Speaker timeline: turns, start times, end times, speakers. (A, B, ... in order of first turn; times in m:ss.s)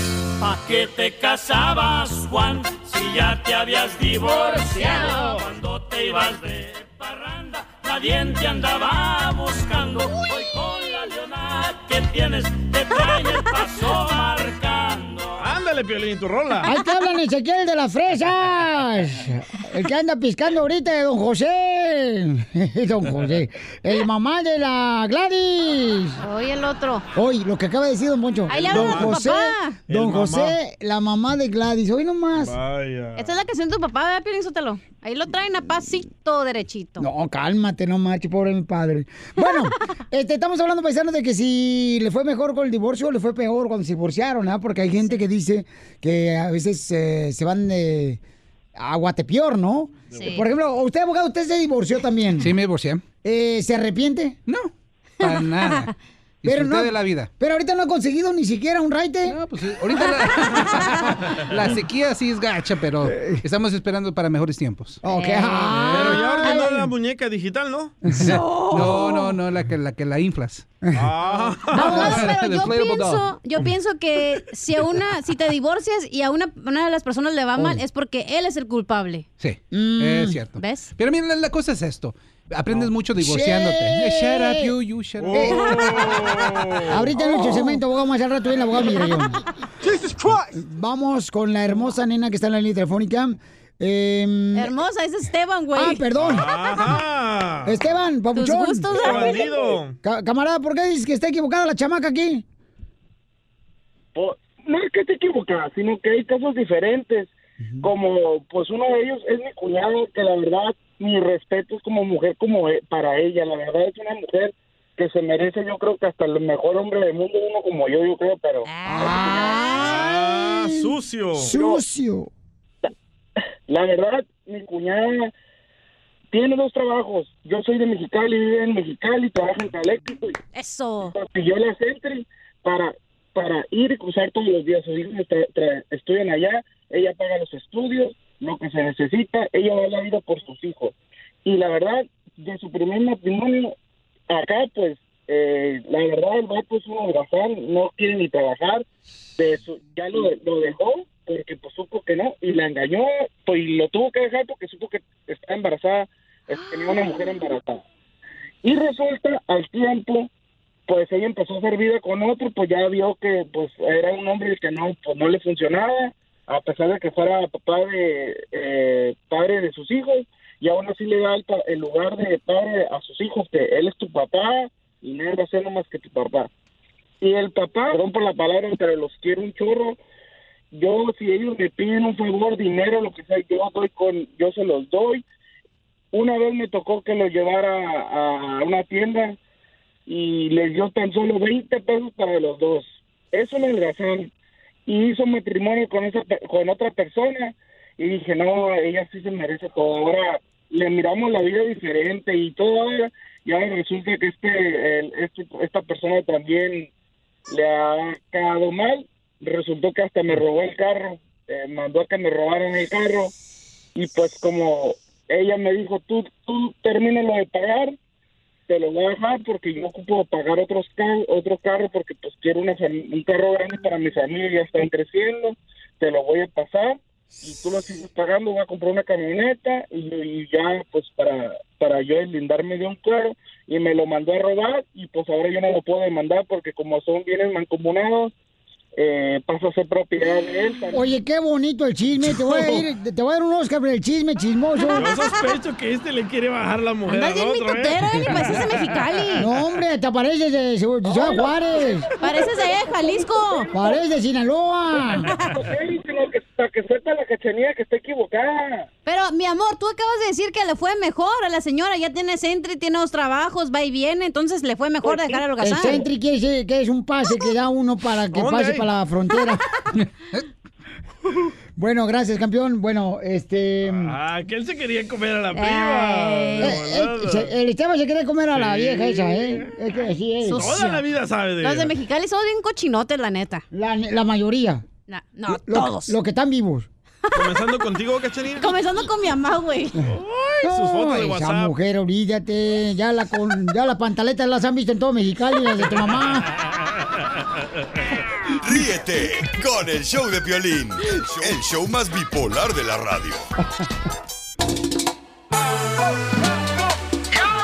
0:00.4-0:15.4 A
0:15.4-0:16.7 B
0:16.6-0:26.2 C
0:26.2-0:27.1 D
0:27.1-0:32.5 C
0:28.5-0:29.8 D
0:28.5-0:29.2 B
0:29.9-0:30.6 B
0:32.3-0:33.3 B
0:33.2-0:37.1 D
0:37.0-0:48.2 C
0:39.4-0:39.7 D
0:48.8-0:52.5 C
0:50.1-0:50.4 B
0:50.1-0:50.5 D
0:52.4-0:53.0 E
0:53.2-0:54.4 C
0:54.4-0:55.9 E
0:55.2-0:55.9 D
0:56.4-0:57.3 E
0:56.4-0:59.4 C
0:59.2-1:05.0 E
0:59.9-1:01.1 D
1:03.1-1:03.4 C
1:05.0-1:06.8 C
1:05.0-1:06.8 D
1:05.9-1:08.0 B
1:08.1-1:10.7 E
1:08.2-1:09.4 D
1:10.9-1:12.1 B
1:11.7-1:19.2 D
1:11.8-1:13.2 E
1:11.8-1:12.3 C
1:19.4-1:25.5 E
1:19.7-1:20.4 C
1:20.5-1:20.9 D
1:23.1-1:24.7 C
1:25.2-1:27.2 B
1:25.3-1:26.0 C
1:26.9-1:29.4 C
1:27.2-1:27.8 D
1:30.5-1:34.7 C
1:34.5-1:37.0 D
1:35.8-1:36.4 C
1:36.2-1:37.9 B
1:37.6-1:39.4 C
1:38.3-1:39.5 D
1:38.9-1:40.0 B
1:40.0-1:42.4 C
1:44.1-1:58.7 F
1:58.6-2:00.2 D
1:58.9-2:02.2 C
1:59.8-2:01.6 B
2:03.7-2:05.3 F
2:06.3-2:10.4 F
2:10.5-2:11.1 D
2:11.1-2:23.7 F
2:24.3-2:28.8 F
2:29.4-2:37.8 F
2:38.6-2:40.3 F
2:40.9-2:56.5 F
2:57.2-3:00.0 F
3:00.7-3:05.2 F
3:06.1-3:09.4 F
3:10.1-3:14.3 F
3:14.9-3:26.9 F
3:27.5-3:33.3 F
3:33.9-3:37.9 F
3:38.7-3:58.3 F
3:59.0-4:01.0 F
4:00.9-4:05.0 C
4:02.2-4:02.8 B
4:04.8-4:05.5 D
4:04.9-4:08.7 B
4:07.1-4:09.5 D
4:09.4-4:12.1 C
4:12.2-4:13.7 D
4:13.7-4:15.3 C
4:15.3-4:15.5 D
4:15.5-4:18.9 F
4:19.0-4:26.0 D
4:25.6-4:29.6 C
4:28.3-4:28.9 B
4:31.8-4:34.1 C
4:33.8-4:37.5 B
4:35.5-4:36.8 D
4:36.6-4:40.7 C
4:38.5-4:39.7 B
4:40.4-4:41.0 D
4:40.5-4:41.9 B
4:41.6-4:43.6 D
4:43.7-4:44.9 C
4:45.1-4:46.2 D
4:45.5-4:46.9 C
4:47.3-4:47.5 D
4:47.3-4:48.8 B
4:48.6-4:50.0 D
4:50.1-4:51.7 B
4:50.6-4:56.5 C
4:58.6-5:03.5 G